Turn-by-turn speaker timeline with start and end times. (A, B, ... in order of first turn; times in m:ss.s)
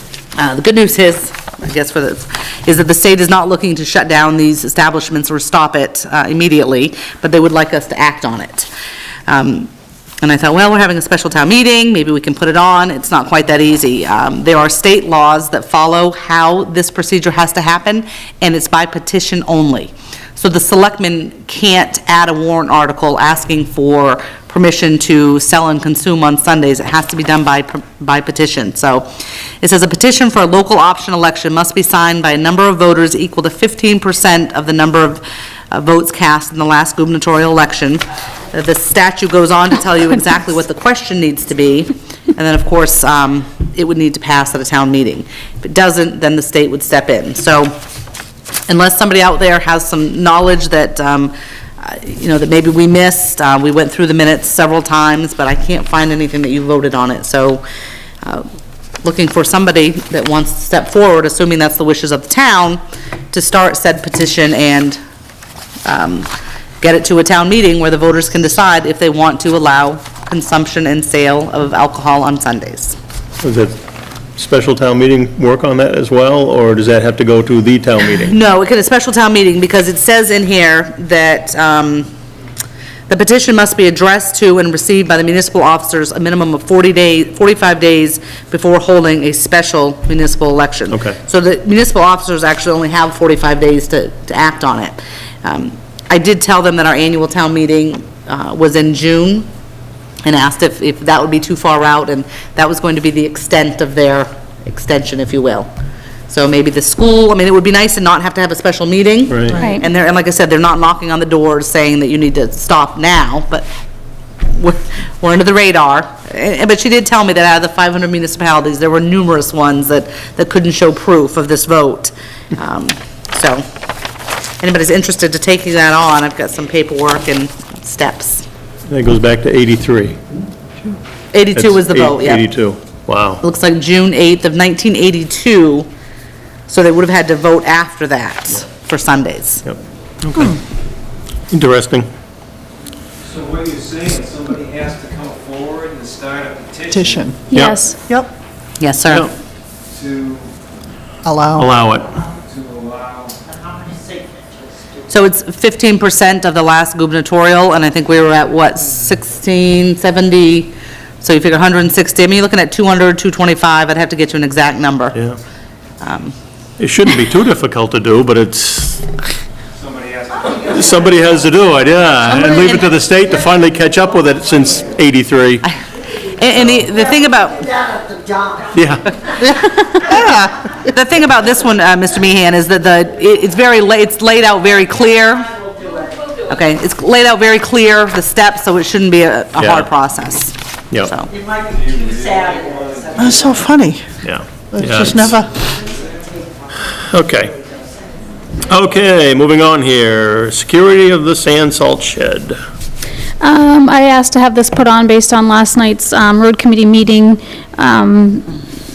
0:00.4-0:08.7 A
0:09.3-0:09.7 A
0:10.2-0:29.1 A
0:29.6-0:47.8 A
0:48.7-0:57.6 A
0:58.2-0:58.5 A
0:59.0-1:05.0 A
1:05.8-1:06.3 A
1:06.8-1:13.0 A
1:13.4-1:13.7 B
1:14.4-1:18.4 B
1:18.2-1:22.1 A
1:23.1-1:39.5 A
1:30.9-1:31.2 B
1:40.2-1:45.7 A
1:46.3-1:53.7 A
1:49.3-1:49.6 B
1:49.6-1:49.8 C
1:54.5-2:03.6 A
2:04.6-2:08.4 A
2:08.9-2:10.2 B
2:11.3-2:12.4 A
2:11.6-2:13.4 B
2:13.4-2:15.9 A
2:16.7-2:19.7 A
2:19.7-2:20.6 B
2:21.5-2:22.1 B
2:23.3-2:27.3 D
2:26.9-2:27.4 E
2:27.5-2:28.0 C
2:27.5-2:27.8 B
2:28.8-2:29.3 A
2:29.9-2:30.5 D
2:31.2-2:31.7 E
2:31.6-2:32.2 B
2:32.5-2:33.4 D
2:35.1-2:45.2 A
2:46.0-2:46.4 A
2:46.8-2:49.1 B
2:49.8-2:51.1 D
2:50.7-2:55.7 B
2:52.3-2:52.8 A
2:55.6-2:57.8 A
2:58.7-2:59.1 B
2:59.3-3:05.6 A
3:06.4-3:11.3 A
3:09.6-3:09.9 B
3:11.7-3:13.4 D
3:13.2-3:14.2 E
3:14.2-3:15.4 B
3:14.7-3:15.6 E
3:16.9-3:17.6 B
3:18.6-3:22.6 B
3:23.4-3:28.5 C